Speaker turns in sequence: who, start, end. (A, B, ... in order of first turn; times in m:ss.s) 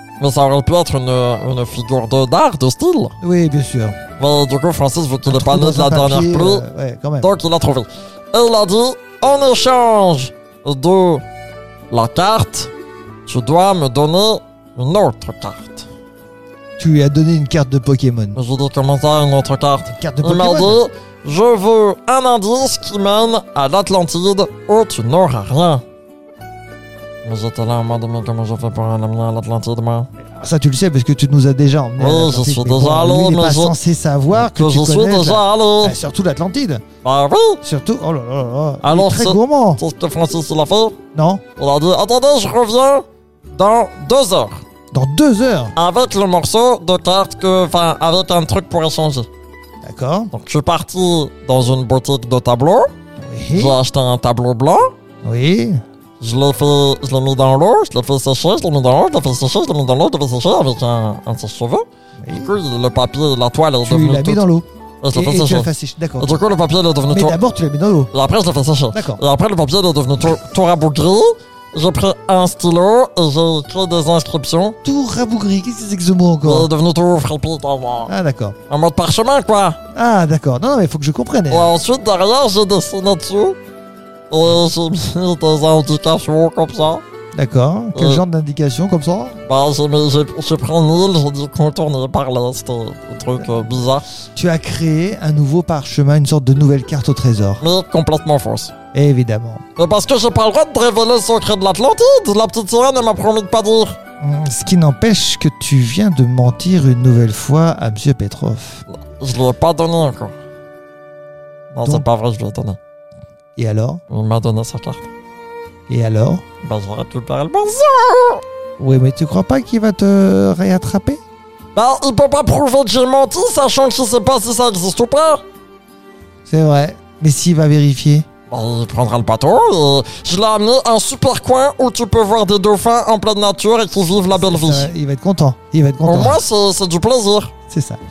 0:00.2-0:03.2 A
0:03.2-0:04.0 B
0:04.2-0:06.7 A
0:05.2-0:07.3 B
0:07.2-0:11.2 A
0:11.9-0:12.7 A
0:13.3-0:15.9 A
0:16.8-0:18.4 B
0:18.3-0:25.8 A
0:19.9-0:20.8 B
0:27.2-0:30.1 A
0:30.4-0:36.8 B
0:32.0-0:33.8 A
0:34.3-0:36.0 A
0:37.0-0:37.6 A
0:37.6-0:39.8 B
0:38.8-0:41.0 A
0:41.1-0:41.4 B
0:41.6-0:44.6 A
0:44.9-0:45.7 B
0:45.8-0:49.3 A
0:49.8-0:50.3 B
0:50.3-0:52.9 A
0:53.2-0:53.8 B
0:53.5-0:54.9 A
0:55.2-0:55.8 B
0:56.2-1:04.5 A
1:02.2-1:02.6 B
1:03.8-1:06.4 B
1:05.0-1:07.4 A
1:07.1-1:08.1 B
1:08.1-1:14.8 A
1:08.9-1:09.2 B
1:14.8-1:16.7 B
1:16.4-1:18.1 A
1:18.0-1:18.5 B
1:18.7-1:19.8 A
1:19.9-1:21.7 B
1:21.5-1:23.6 A
1:24.3-1:27.0 A
1:27.3-1:29.4 B
1:27.9-1:28.2 A
1:29.4-1:34.1 A
1:34.4-1:37.6 B
1:37.6-1:38.7 A
1:38.9-1:39.6 B
1:39.8-1:44.0 A
1:44.2-1:48.8 B
1:48.9-1:50.4 A
1:51.7-1:52.8 A
1:51.8-1:52.1 B
1:53.6-1:54.0 B
1:54.1-1:55.0 A
1:55.9-1:56.4 B
1:56.6-1:58.4 A
1:58.8-2:01.2 B
2:01.7-2:05.4 A
2:06.4-2:08.2 B
2:08.5-2:14.9 A
2:14.3-2:16.4 B
2:16.0-2:17.5 A
2:17.7-2:18.0 B